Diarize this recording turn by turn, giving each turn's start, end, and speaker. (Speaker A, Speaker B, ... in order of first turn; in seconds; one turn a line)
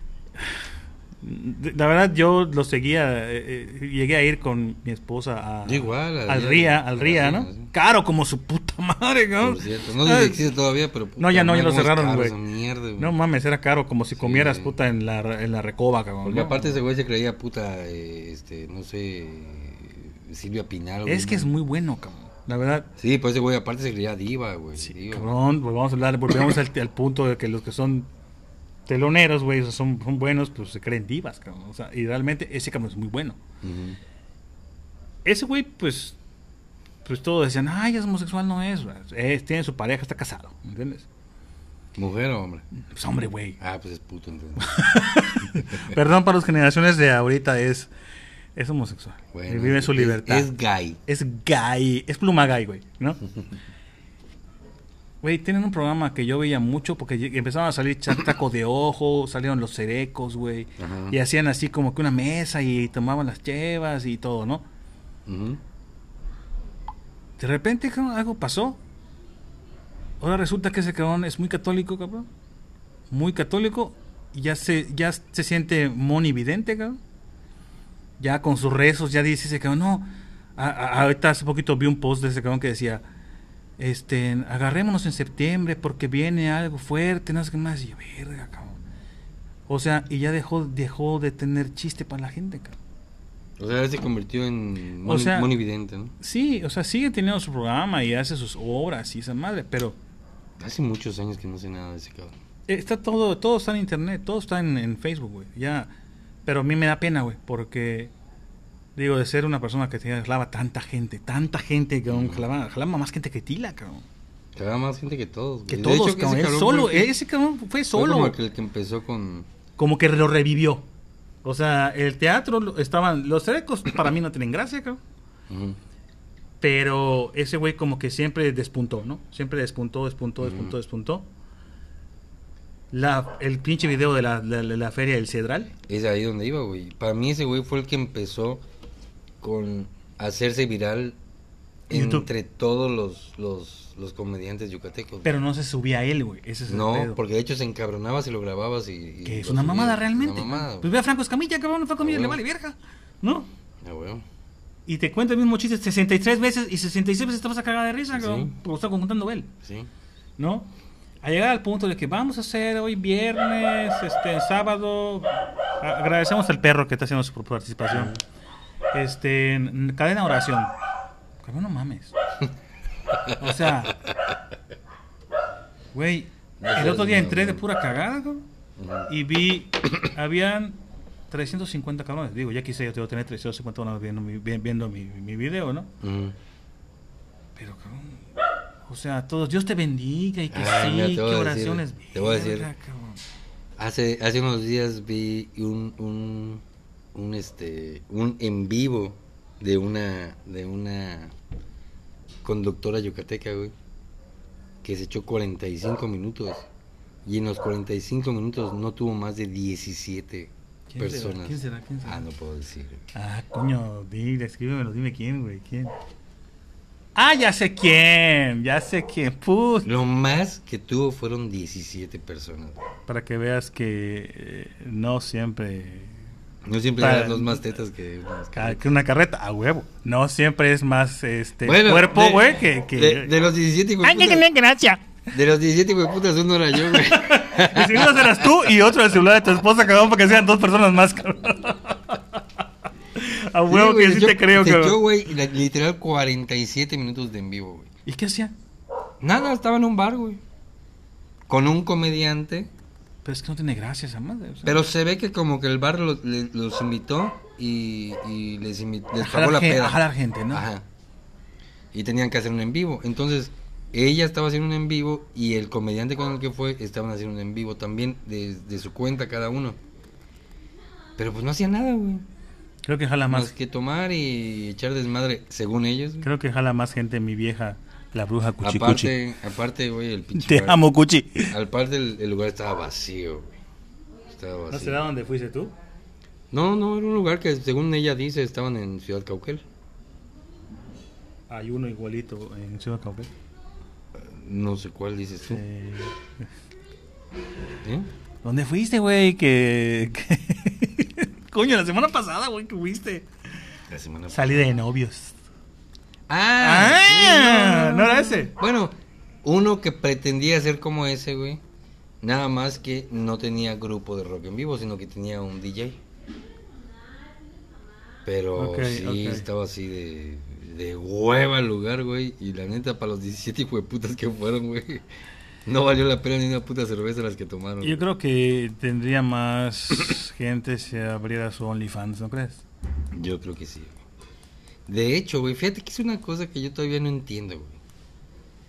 Speaker A: 1.2-10.4
Speaker B: 5.6-7.7
Speaker B: 9.4-13.1
Speaker A: 11.2-12.4
Speaker A: 13.0-16.8
Speaker B: 14.2-14.7
Speaker B: 16.2-21.5
Speaker A: 21.1-22.9
Speaker B: 23.0-25.3
Speaker A: 24.8-28.1
Speaker A: 28.9-33.4
Speaker B: 33.6-34.0
Speaker A: 35.2-36.2
Speaker A: 37.0-41.1
Speaker B: 41.9-42.6
Speaker A: 42.7-43.6
Speaker B: 43.6-44.9
Speaker A: 44.6-47.9
Speaker B: 45.4-45.9
Speaker A: 48.5-50.5
Speaker B: 49.3-51.0
Speaker A: 51.1-53.2
Speaker A: 55.2-64.6
Speaker B: 60.8-61.2
Speaker B: 65.2-65.6
Speaker A: 67.4-68.8
Speaker A: 70.2-72.3
Speaker A: 73.1-77.0
Speaker A: 78.2-83.0
Speaker A: 83.8-88.8
Speaker A: 89.7-92.8
Speaker B: 93.6-96.1
Speaker A: 95.0-95.5
Speaker A: 96.2-100.0
Speaker B: 100.6-102.3
Speaker A: 102.7-105.9
Speaker A: 106.5-108.1
Speaker A: 109.0-114.0
Speaker B: 112.1-112.4
Speaker B: 114.5-117.1
Speaker A: 115.7-118.4
Speaker B: 117.9-119.5
Speaker A: 119.8-120.8
Speaker A: 121.4-125.0
Speaker B: 125.5-125.8
Speaker A: 126.6-131.2
Speaker B: 130.4-130.7
Speaker A: 132.9-135.7
Speaker B: 135.9-138.6
Speaker B: 139.4-141.2
Speaker B: 141.9-145.3
Speaker A: 141.9-142.3
Speaker A: 145.2-147.2
Speaker B: 146.7-150.9
Speaker A: 149.2-153.5
Speaker B: 152.0-152.4
Speaker B: 153.8-154.2
Speaker A: 154.9-159.5
Speaker B: 158.1-158.5
Speaker B: 159.6-159.9
Speaker A: 160.4-160.7
Speaker A: 161.2-168.1
Speaker B: 167.9-168.2
Speaker A: 168.9-170.7
Speaker A: 171.4-172.1
Speaker A: 173.4-174.0
Speaker A: 175.9-178.4
Speaker B: 176.6-177.6
Speaker B: 178.8-179.1
Speaker A: 179.1-180.8
Speaker A: 181.3-185.9
Speaker B: 186.0-186.3
Speaker A: 187.6-188.3
Speaker A: 188.9-193.2
Speaker B: 190.5-192.7
Speaker B: 193.8-196.6
Speaker B: 197.1-201.3
Speaker B: 202.4-203.7
Speaker B: 204.8-206.7
Speaker B: 207.2-213.0
Speaker A: 210.9-212.2
Speaker A: 213.1-215.9
Speaker A: 217.2-219.9
Speaker B: 219.8-222.9
Speaker A: 223.1-226.2
Speaker B: 226.6-228.8
Speaker A: 227.0-227.6
Speaker A: 228.5-233.4
Speaker B: 231.6-234.4
Speaker A: 234.0-235.0
Speaker B: 235.3-238.7
Speaker A: 236.8-242.4
Speaker A: 243.1-245.0
Speaker B: 243.7-247.9
Speaker A: 248.1-248.5
Speaker B: 249.2-250.4
Speaker B: 251.5-252.7
Speaker A: 253.2-254.8
Speaker B: 254.6-260.8
Speaker A: 259.2-260.6
Speaker B: 261.9-269.8
Speaker B: 271.2-272.2
Speaker A: 272.9-273.5
Speaker B: 273.3-276.3
Speaker A: 276.2-279.1
Speaker B: 278.6-280.8
Speaker A: 280.3-281.5
Speaker B: 281.5-283.6
Speaker B: 284.3-285.0
Speaker A: 284.7-285.7
Speaker B: 286.5-289.6
Speaker A: 291.5-293.3
Speaker B: 294.1-295.6
Speaker A: 295.5-296.4
Speaker B: 297.8-298.1
Speaker A: 298.4-303.3
Speaker B: 303.9-304.5
Speaker A: 304.3-305.4
Speaker B: 306.3-311.6
Speaker A: 306.6-308.5
Speaker B: 312.2-316.0
Speaker B: 318.2-325.1
Speaker A: 318.6-319.4
Speaker B: 325.6-328.0
Speaker A: 327.8-332.6
Speaker B: 333.1-334.0
Speaker B: 334.9-337.8